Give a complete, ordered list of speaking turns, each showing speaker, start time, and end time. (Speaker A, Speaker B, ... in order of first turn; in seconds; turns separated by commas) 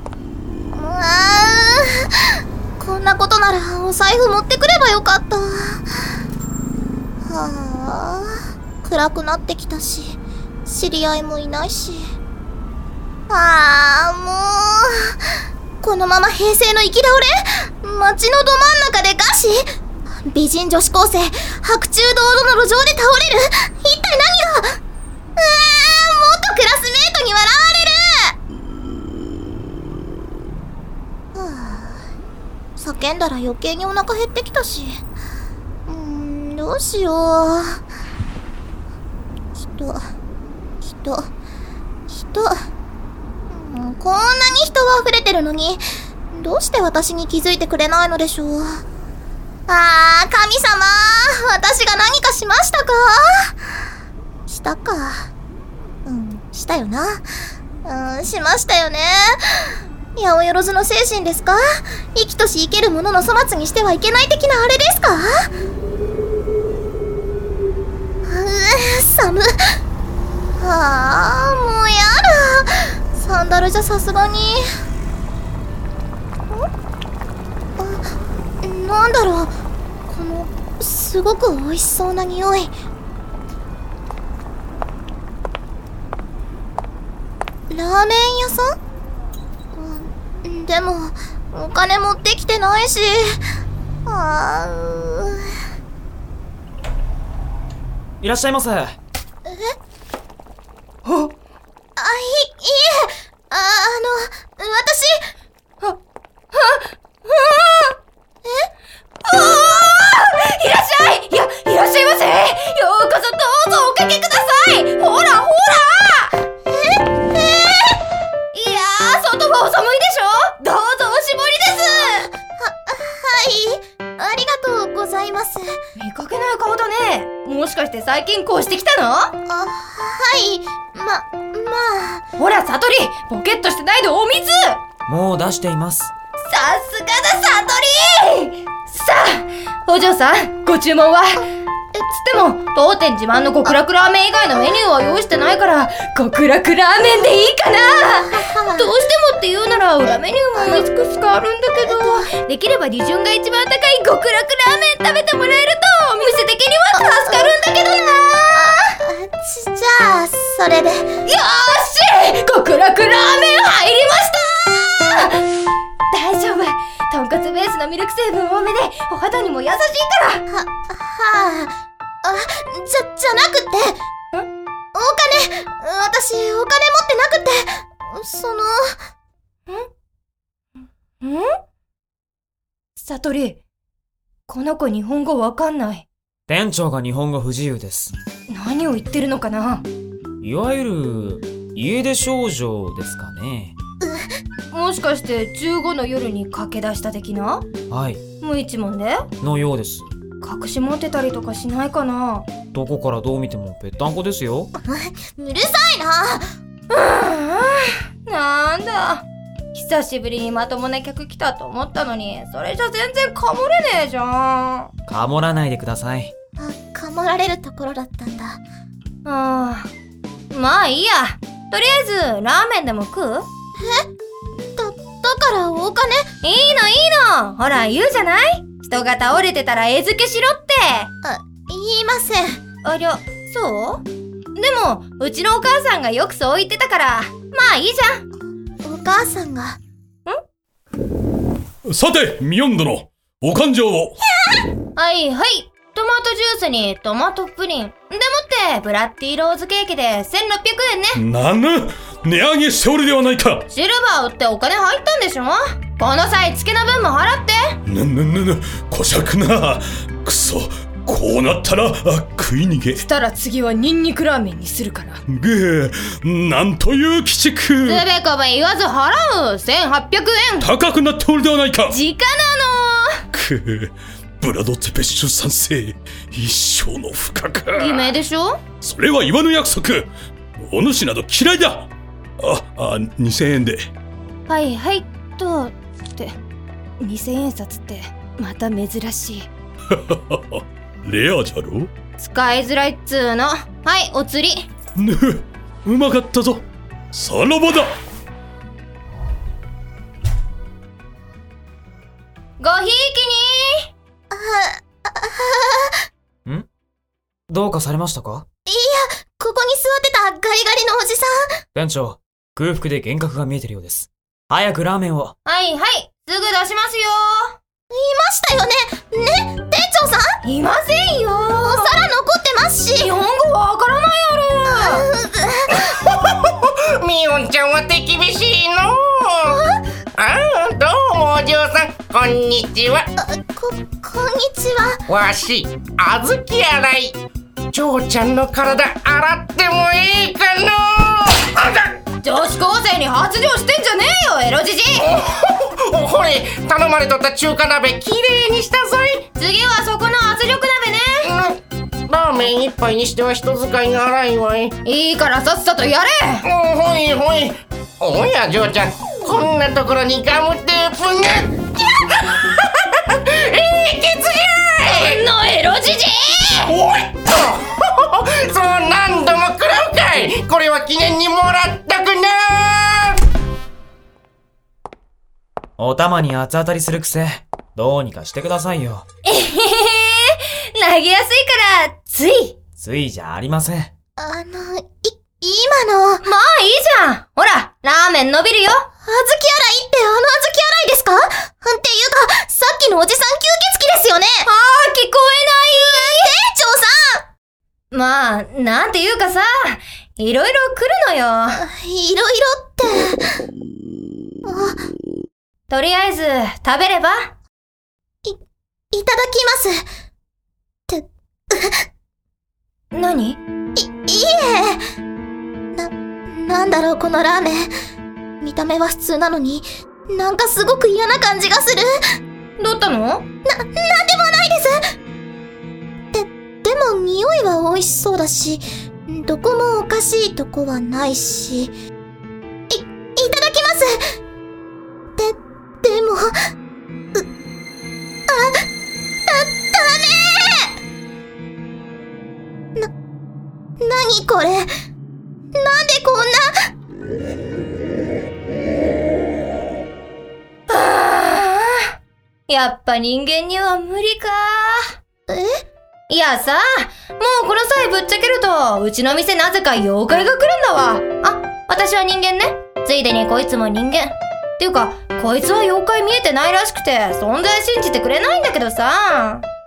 Speaker A: 0.7-6.2, Speaker A: 7.2-12.1, Speaker A: 13.3-24.8, Speaker A: 25.4-28.4, Speaker A: 31.3-32.0, Speaker A: 32.8-35.0, Speaker A: 35.9-37.8, Speaker A: 39.6-40.0, Speaker A: 40.8-41.3, Speaker A: 42.1-42.5, Speaker A: 43.5-45.8, Speaker A: 46.3-48.8, Speaker A: 49.7-53.5, Speaker A: 54.5-55.3, Speaker A: 56.0-57.2, Speaker A: 57.8-65.5, Speaker A: 68.2-69.5, Speaker A: 70.6-74.6, Speaker A: 77.8-78.1, Speaker A: 78.6-79.5, Speaker A: 80.1-82.7, Speaker A: 87.7-88.7, Speaker A: 89.7-93.4, Speaker A: 94.0-95.5, Speaker B: 98.2-99.0, Speaker A: 99.5-99.7, Speaker C: 101.0-101.3, Speaker A: 102.0-105.2, Speaker C: 106.5-108.0, Speaker C: 109.2-116.4, Speaker A: 116.7-118.0, Speaker C: 118.5-122.3, Speaker A: 122.6-125.8, Speaker C: 126.0-129.3, Speaker A: 129.5-132.2, Speaker C: 132.4-134.8, Speaker B: 135.1-136.1, Speaker C: 136.4-141.4, Speaker C: 142.0-158.7, Speaker A: 148.3-148.9, Speaker A: 150.1-150.9, Speaker A: 151.8-152.2, Speaker A: 157.0-157.5, Speaker A: 158.5-161.1, Speaker C: 161.2-165.5, Speaker C: 166.1-170.4, Speaker A: 170.5-171.7, Speaker A: 172.2-174.0, Speaker A: 174.9-178.9, Speaker C: 181.2-181.5, Speaker C: 182.9-183.6, Speaker C: 184.5-186.1, Speaker B: 186.5-188.1, Speaker C: 188.5-189.8, Speaker B: 190.4-193.8, Speaker C: 194.7-197.6, Speaker B: 197.9-198.2, Speaker C: 198.4-199.3, Speaker B: 199.4-200.1, Speaker C: 200.4-202.5, Speaker B: 202.7-204.7, Speaker A: 204.8-206.4, Speaker C: 206.9-214.9, Speaker B: 215.1-216.3, Speaker A: 216.6-218.6, Speaker C: 219.2-219.9, Speaker C: 220.5-223.4, Speaker A: 223.8-224.1, Speaker A: 224.8-226.3, Speaker C: 226.4-231.1, Speaker A: 231.2-232.6, Speaker C: 232.8-238.2, Speaker A: 238.8-239.8, Speaker D: 241.9-244.1, Speaker C: 244.9-251.2, Speaker D: 251.2-253.6, Speaker C: 253.7-257.8, Speaker D: 257.9-263.0, Speaker C: 262.9-265.2, Speaker D: 265.3-268.0, Speaker C: 267.8-270.7, Speaker D: 270.6-271.9, Speaker C: 271.9-273.2, Speaker D: 273.3-278.1, Speaker C: 277.8-278.6, Speaker D: 278.8-280.1, Speaker D: 280.6-281.9, Speaker D: 282.4-283.9, Speaker C: 284.5-286.4, Speaker C: 287.0-289.5, Speaker D: 290.1-291.9, Speaker C: 292.2-294.7, Speaker D: 295.0-297.9, Speaker C: 302.6-303.9, Speaker A: 304.3-306.0, Speaker B: 307.5-308.4, Speaker A: 308.7-311.6, Speaker B: 311.7-315.3, Speaker C: 315.4-317.6, Speaker A: 317.9-320.3, Speaker C: 320.4-321.9, Speaker A: 321.6-323.1, Speaker C: 323.0-325.1, Speaker A: 324.7-326.1, Speaker E: 326.0-329.6, Speaker E: 330.2-333.1, Speaker A: 333.2-335.0, Speaker E: 335.1-337.2, Speaker E: 337.7-342.0, Speaker C: 342.2-345.2, Speaker E: 345.0-349.2, Speaker C: 349.4-351.3, Speaker E: 351.2-354.7, Speaker C: 354.8-356.4, Speaker E: 356.4-365.2, Speaker C: 364.9-366.7, Speaker E: 366.7-373.2, Speaker B: 375.8-379.0, Speaker C: 379.2-382.6, Speaker B: 382.8-383.9, Speaker A: 384.2-386.2, Speaker C: 386.2-388.9, Speaker A: 389.0-394.5, Speaker C: 394.4-396.2, Speaker A: 395.9-397.2, Speaker C: 397.9-401.6, Speaker A: 401.6-403.2, Speaker A: 404.4-404.8, Speaker C: 405.7-407.3, Speaker A: 408.9-409.8, Speaker A: 410.9-411.8, Speaker C: 412.9-413.4, Speaker A: 413.8-414.8, Speaker A: 415.7-417.7, Speaker A: 418.4-422.0, Speaker C: 422.6-423.2, Speaker A: 423.4-424.8, Speaker A: 426.1-431.7, Speaker A: 432.7-434.0, Speaker A: 435.1-436.3, Speaker A: 438.3-438.6, Speaker A: 439.3-440.7, Speaker A: 443.8-444.7, Speaker A: 445.5-446.7, Speaker C: 450.7-451.9, Speaker C: 452.5-454.9, Speaker A: 455.3-455.6, Speaker C: 456.1-469.4